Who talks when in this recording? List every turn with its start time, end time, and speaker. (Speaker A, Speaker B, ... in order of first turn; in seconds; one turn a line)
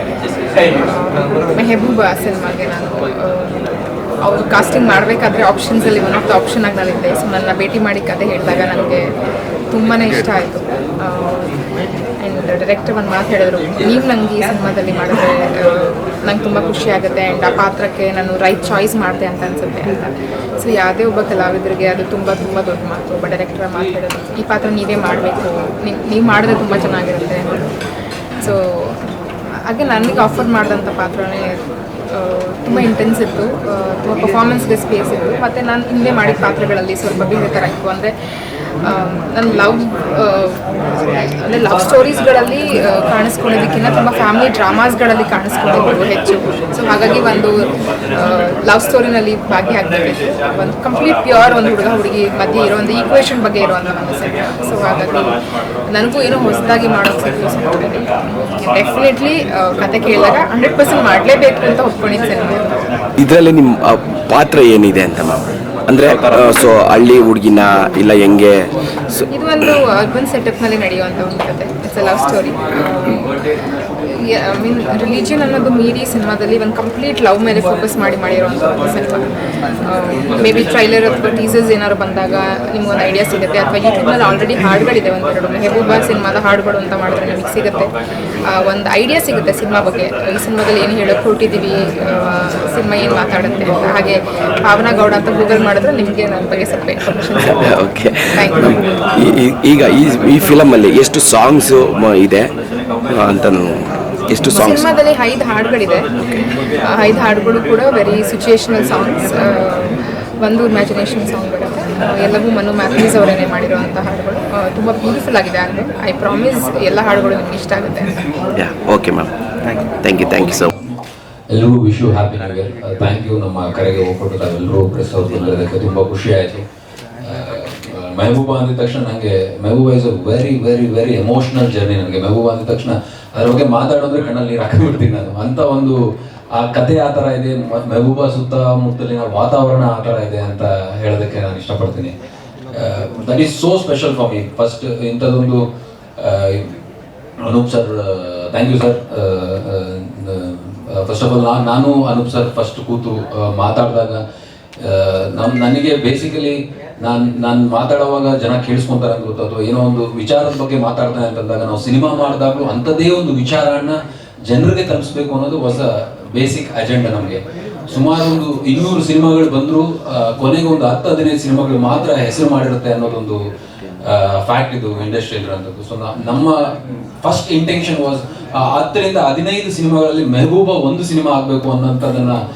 Speaker A: 0.7-3.7
Speaker A: 4.2-9.1
Speaker A: 9.7-11.5
Speaker A: 12.2-27.6
Speaker A: 28.4-28.9
Speaker A: 29.7-38.1
Speaker A: 38.8-62.8
Speaker B: 63.2-69.8
Speaker A: 69.3-73.4
Speaker A: 74.1-79.2
Speaker A: 79.8-87.9
Speaker A: 88.4-97.6
Speaker B: 97.4-102.5
Speaker A: 98.3-98.7
Speaker B: 103.1-104.9
Speaker A: 104.5-106.1
Speaker A: 106.8-118.1
Speaker B: 118.5-120.7
Speaker C: 121.5-126.6
Speaker C: 127.2-136.0
Speaker C: 136.6-142.1
Speaker C: 142.7-145.6
Speaker C: 146.2-146.7
Speaker C: 147.4-154.2
Speaker C: 154.8-173.4
Speaker C: 174.0-176.6
Speaker C: 177.2-182.4